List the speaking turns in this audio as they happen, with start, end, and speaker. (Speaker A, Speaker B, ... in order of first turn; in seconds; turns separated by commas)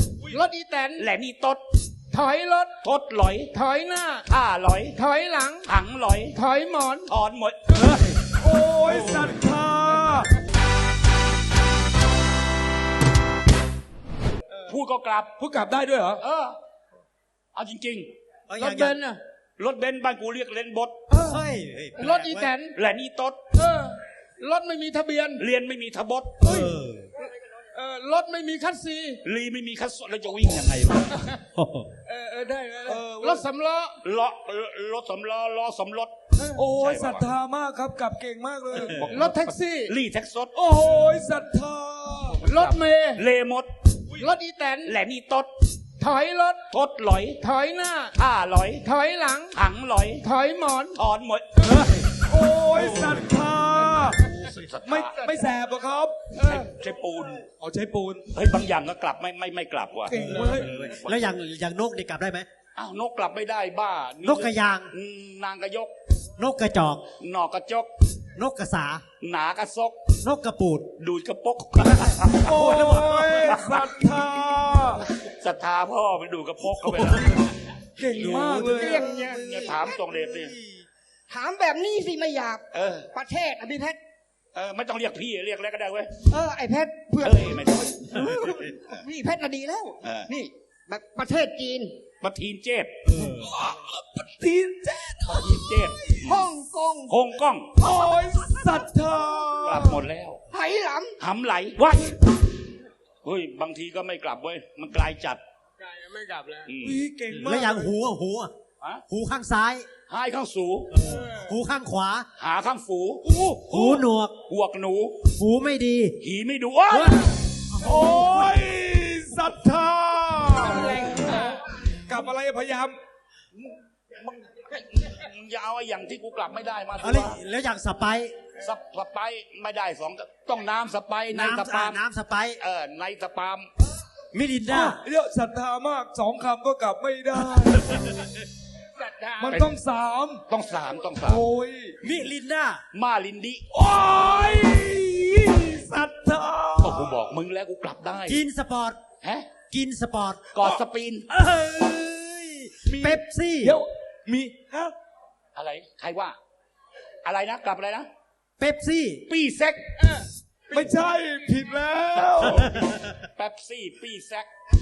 Speaker A: 0.3-1.0, Speaker B: 1.0-1.6, Speaker A: 2.1-2.7, Speaker B: 2.8-3.5, Speaker A: 3.5-4.2, Speaker B: 4.2-5.0, Speaker A: 5.0-5.7, Speaker B: 5.7-6.4, Speaker A: 6.3-7.1, Speaker B: 7.0-7.7, Speaker C: 8.3-10.3, Speaker B: 14.7-15.3, Speaker C: 15.4-16.2, Speaker B: 16.2-16.6, Speaker B: 17.5-18.1, Speaker D: 18.5-19.0, Speaker A: 18.6-19.2, Speaker B: 19.6-20.9, Speaker C: 21.1-21.4, Speaker D: 21.2-22.5, Speaker A: 22.0-22.7, Speaker B: 22.7-23.5, Speaker A: 23.5-25.4, Speaker B: 25.4-26.5, Speaker D: 26.4-27.1, Speaker A: 27.7-29.2, Speaker B: 29.2-31.2, Speaker D: 31.6-31.9, Speaker A: 32.1-33.9, Speaker C: 32.9-33.5, Speaker B: 34.0-36.1, Speaker C: 36.5-39.1, Speaker B: 36.8-37.3, Speaker B: 38.8-40.5, Speaker A: 39.1-39.9, Speaker C: 40.6-42.5, Speaker A: 42.5-43.2, Speaker B: 42.5-43.7, Speaker A: 44.2-44.9, Speaker B: 44.9-45.5, Speaker A: 46.0-46.6, Speaker B: 46.7-47.4, Speaker A: 47.4-48.1, Speaker B: 48.1-48.9, Speaker A: 48.8-49.5, Speaker B: 49.5-50.2, Speaker A: 50.2-51.0, Speaker B: 51.0-51.5, Speaker C: 51.8-56.6, Speaker B: 54.5-55.2, Speaker B: 56.4-57.5, Speaker C: 57.5-58.3, Speaker B: 58.3-61.2, Speaker C: 60.1-60.8, Speaker D: 61.0-62.5, Speaker B: 62.8-65.9, Speaker D: 64.2-64.9, Speaker D: 66.4-67.0, Speaker B: 67.2-67.9, Speaker D: 68.4-69.0, Speaker B: 69.2-70.0, Speaker D: 70.2-70.9, Speaker B: 71.0-73.8, Speaker D: 71.8-73.5, Speaker C: 72.4-75.0, Speaker B: 75.2-77.4, Speaker C: 78.0-79.3, Speaker B: 78.1-78.7, Speaker E: 78.4-80.7, Speaker B: 79.2-80.5, Speaker E: 81.3-84.0, Speaker B: 82.7-83.1, Speaker B: 84.5-86.1, Speaker E: 86.3-91.9, Speaker B: 87.2-88.2, Speaker B: 90.0-90.3, Speaker B: 92.2-92.9, Speaker C: 93.1-96.2, Speaker D: 93.1-93.5, Speaker B: 95.3-96.4, Speaker E: 96.2-97.2, Speaker B: 97.1-97.7, Speaker C: 97.8-100.0, Speaker B: 99.6-100.4, Speaker E: 100.5-101.1, Speaker B: 101.2-102.1, Speaker B: 103.2-105.4, Speaker A: 105.8-106.7, Speaker B: 106.7-107.0, Speaker C: 106.8-107.9, Speaker D: 107.4-108.5, Speaker D: 109.1-109.9, Speaker B: 110.1-110.9, Speaker D: 110.9-112.3, Speaker B: 112.4-113.2, Speaker C: 113.2-114.1, Speaker D: 113.7-114.3, Speaker B: 114.5-115.2, Speaker D: 115.3-116.2, Speaker B: 116.2-117.2, Speaker D: 116.9-117.3, Speaker C: 117.8-121.5, Speaker D: 117.8-118.7, Speaker A: 120.9-121.5, Speaker C: 122.1-123.0, Speaker B: 123.6-127.4, Speaker D: 127.0-128.3, Speaker B: 128.6-132.0, Speaker D: 131.3-132.6, Speaker B: 132.6-133.7, Speaker D: 134.3-135.0, Speaker C: 134.7-138.0, Speaker A: 139.0-139.4, Speaker C: 139.4-140.4, Speaker B: 139.4-139.7, Speaker B: 140.5-141.4, Speaker C: 141.3-142.0, Speaker D: 142.0-142.8, Speaker B: 142.9-143.6, Speaker C: 143.7-147.2, Speaker B: 146.8-148.4, Speaker D: 148.3-149.0, Speaker B: 149.2-149.5, Speaker D: 149.7-150.6, Speaker B: 150.5-151.3, Speaker D: 151.3-153.8, Speaker C: 152.9-154.9, Speaker B: 155.6-156.4, Speaker B: 157.2-158.1, Speaker D: 158.6-159.3, Speaker B: 159.3-159.8, Speaker C: 160.7-162.8, Speaker D: 162.6-163.0, Speaker B: 163.4-164.5